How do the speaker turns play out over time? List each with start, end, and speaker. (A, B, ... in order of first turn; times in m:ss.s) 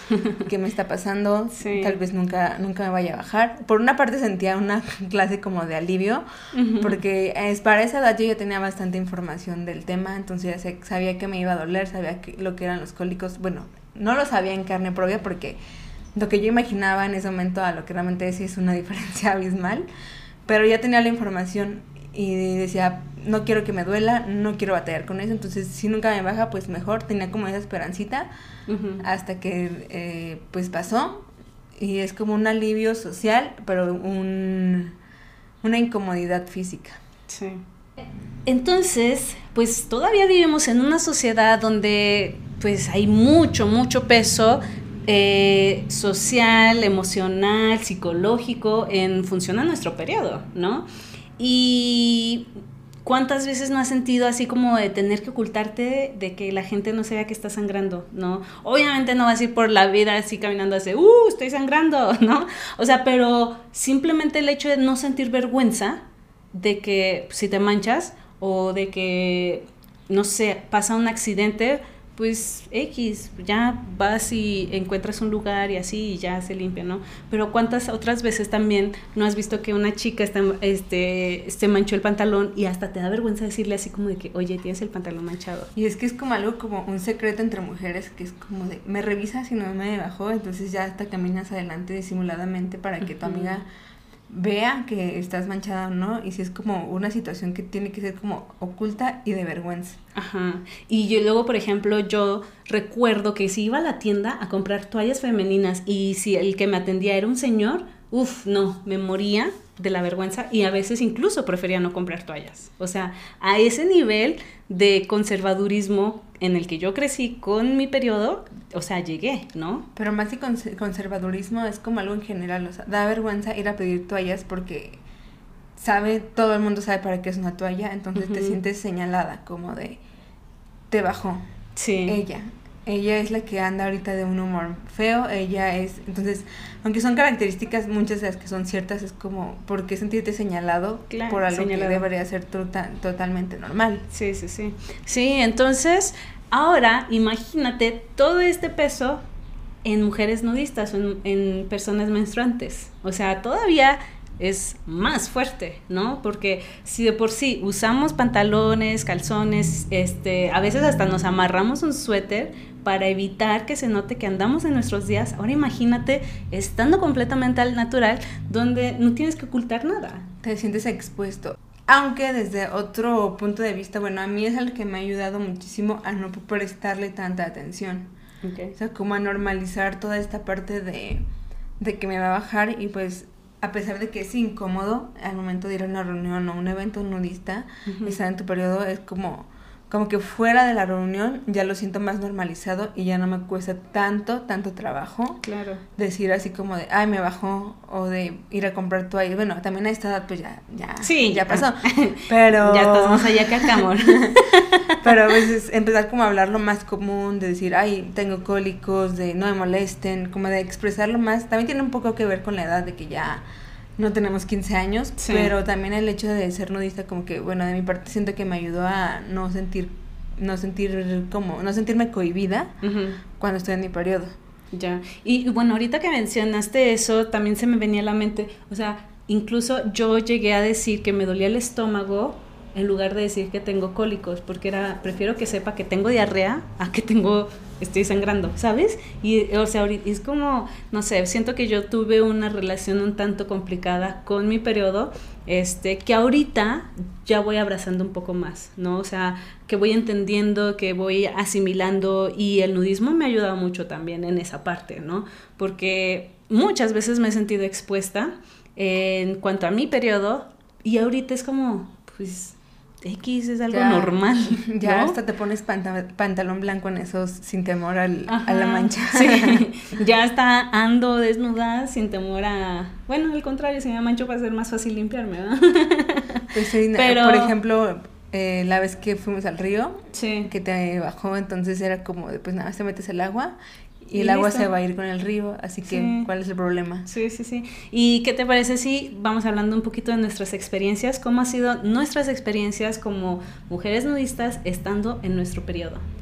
0:00.4-0:06.2 A
0:01.5-0:02.0 B
0:06.5-0:07.0 B
0:06.8-0:15.6 A
0:16.1-0:19.8 A
0:20.4-0:28.3 A
0:28.7-0:29.0 B
0:29.0-0:35.0 A
0:35.6-0:37.0 A
0:37.3-0:37.6 B
0:38.4-0:50.8 B
0:51.4-0:52.5 B
0:53.0-1:25.7 B
1:25.7-1:33.7 A
1:33.1-1:33.5 B
1:34.3-1:40.0 A
1:40.1-1:59.9 B
1:59.9-2:05.0 A
2:05.8-2:10.0 A
2:08.2-2:08.6 B
2:10.9-2:11.4 A
2:11.8-2:12.2 B
2:12.1-2:24.0 A
2:21.1-2:22.0 B
2:24.1-2:29.2 B
2:29.8-2:50.2 B
2:50.4-2:58.1 A
2:58.4-2:58.7 B
2:58.7-3:01.2 A
3:01.8-3:15.4 A
3:07.8-3:08.2 B
3:15.4-3:15.8 B
3:16.0-3:24.4 A
3:21.0-3:25.4 B
3:25.0-3:33.4 A
3:34.0-3:42.7 A
3:35.2-3:35.5 B
3:42.8-3:43.2 B
3:43.4-3:44.3 A
3:44.7-4:25.2 B
4:23.7-4:29.6 A
4:28.3-4:37.5 B
4:36.5-4:47.1 A
4:40.1-4:40.5 B
4:44.1-4:44.7 B
4:45.9-4:46.3 B
4:47.0-4:56.0 B